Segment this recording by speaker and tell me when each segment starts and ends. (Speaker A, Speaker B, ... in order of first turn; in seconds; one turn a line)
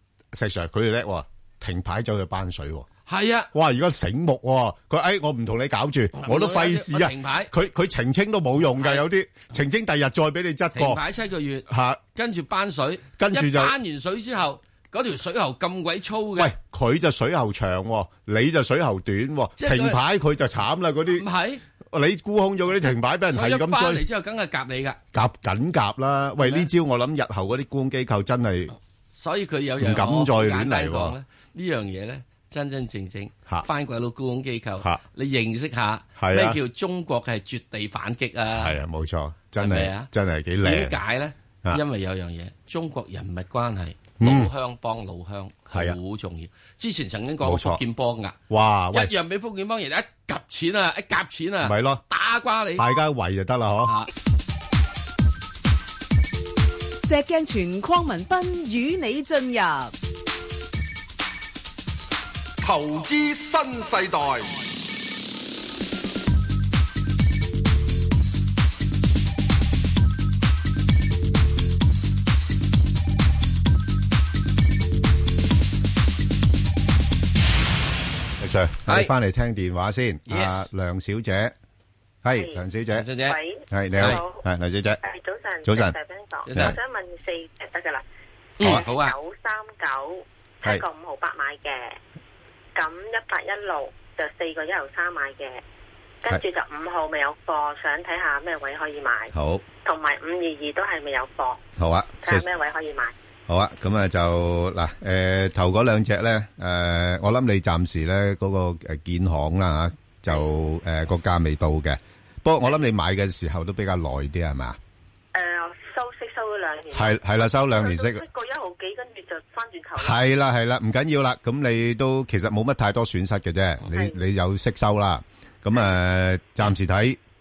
Speaker A: 0.3-2.9
Speaker B: 3.0-3.5
Speaker A: 3.5-11.0
Speaker B: 6.2-7.5
Speaker B: 8.8-9.1
Speaker B: 10.7-16.5
Speaker A: 11.7-12.0
Speaker A: 13.2-13.7
Speaker A: 16.4-21.2
Speaker B: 19.6-20.0
Speaker B: 21.1-21.6
Speaker A: 21.9-24.0
Speaker B: 23.3-25.0
Speaker A: 25.1-28.7
Speaker B: 26.4-26.7
Speaker B: 29.1-38.8
Speaker A: 29.8-31.1
Speaker A: 36.2-36.6
Speaker A: 38.5-41.0
Speaker B: 39.6-40.1
Speaker B: 40.6-48.4
Speaker A: 44.2-44.5
Speaker A: 45.7-46.0
Speaker A: 47.4-47.8
Speaker A: 48.5-49.1
Speaker B: 48.9-52.9
Speaker A: 51.6-52.0
Speaker A: 52.8-53.9
Speaker B: 53.8-54.1
Speaker C: 57.0-59.9
Speaker D: 62.6-64.6
Speaker A: 78.4-81.5
Speaker B: 78.8-79.1
Speaker B: 80.3-80.7
Speaker A: 82.2-83.1
Speaker E: 82.3-82.6
Speaker B: 82.9-83.4
Speaker E: 83.2-84.4
Speaker A: 83.7-85.0
Speaker B: 84.0-84.2
Speaker E: 85.0-88.0
Speaker A: 85.6-85.9
Speaker B: 86.4-86.8
Speaker B: 88.6-89.1
Speaker E: 88.6-92.0
Speaker E: 92.7-95.6
Speaker E: 96.2-99.3
Speaker A: 99.3-99.6
Speaker E: 99.8-101.6
Speaker A: 101.8-102.5
Speaker E: 102.2-103.1
Speaker A: 103.5-114.8
Speaker E: 115.3-120.2
Speaker A: 116.9-118.2
Speaker A: 120.0-127.2
Speaker E: 123.9-124.2